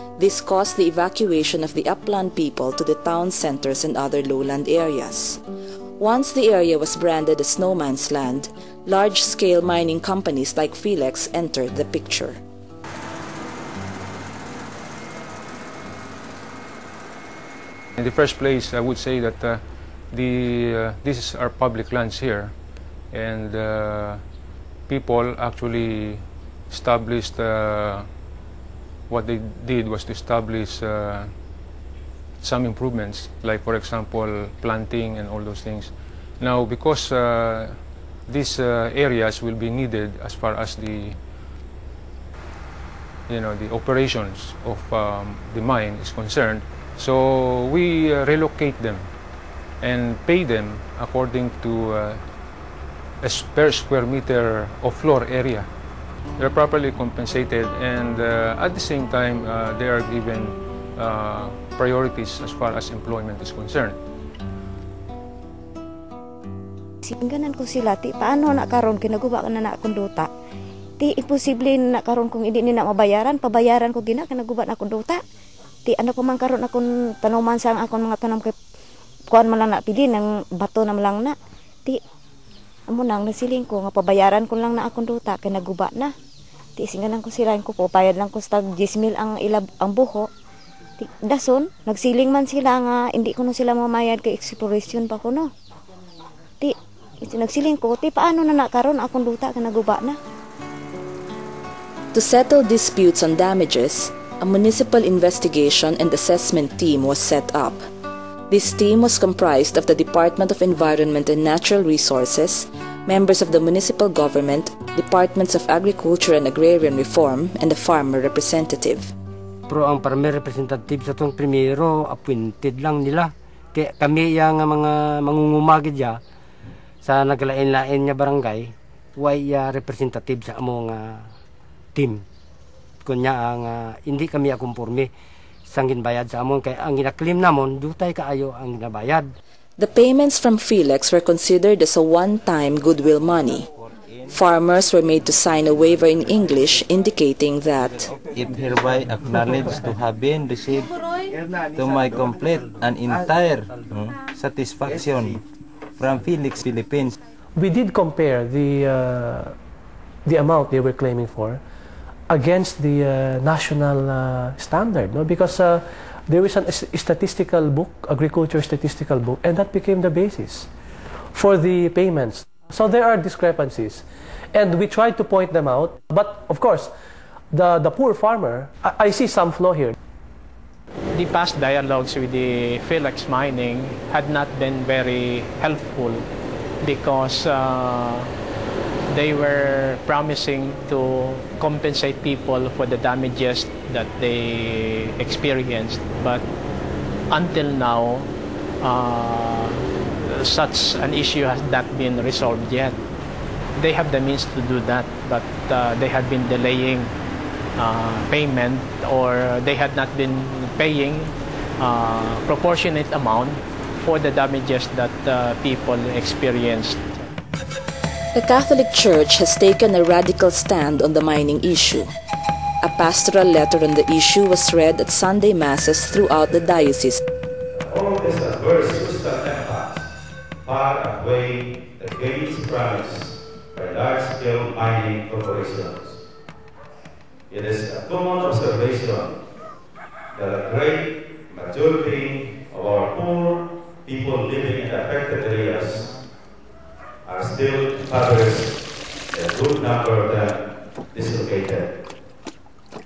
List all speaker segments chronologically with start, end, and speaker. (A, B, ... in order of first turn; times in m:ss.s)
0:00.2-0:05.4 A
0:06.0-0:12.4 A
0:18.0-0:22.5 B
0:23.1-0:24.2 B
0:24.9-0:28.1 B
0:29.1-0:31.3 B
0:32.4-0:41.2 B
0:43.3-0:49.1 B
0:49.8-0:52.2 B
0:53.2-0:55.7 B
0:56.4-1:04.0 B
1:07.0-1:10.3 C
1:11.0-1:15.2 C
1:15.8-1:18.5 C
1:19.3-1:21.3 C
1:22.9-1:26.1 C
1:26.8-1:30.3 C
1:31.0-1:35.5 C
1:36.6-1:40.2 C
1:42.1-1:47.8 A
1:48.5-1:59.1 A
1:59.7-2:06.2 D
2:07.0-2:11.3 D
2:11.9-2:12.2 D
2:13.0-2:15.1 D
2:15.7-2:19.3 D
2:19.8-2:23.7 A
2:24.3-2:28.1 A
2:28.4-2:30.5 E
2:31.8-2:33.5 E
2:34.5-2:35.0 E
2:36.1-2:37.1 E
2:37.6-2:39.5 F
2:40.3-2:41.6 F
2:42.3-2:50.6 F
2:51.4-2:54.0 F
2:54.5-2:56.9 F
2:57.5-2:59.9 F
3:01.1-3:06.2 G
3:06.8-3:08.3 G
3:09.1-3:16.4 G
3:17.3-3:18.3 G
3:18.8-3:23.0 G
3:23.8-3:27.1 G
3:27.8-3:37.3 G
3:38.3-3:42.1 A
3:42.8-3:47.2 A
3:47.8-3:50.0 H
3:50.6-3:56.2 H
3:57.5-3:59.3 H
4:00.3-4:06.0 H
4:07.3-4:08.7 H
4:09.3-4:10.5 H
4:11.1-4:11.8 H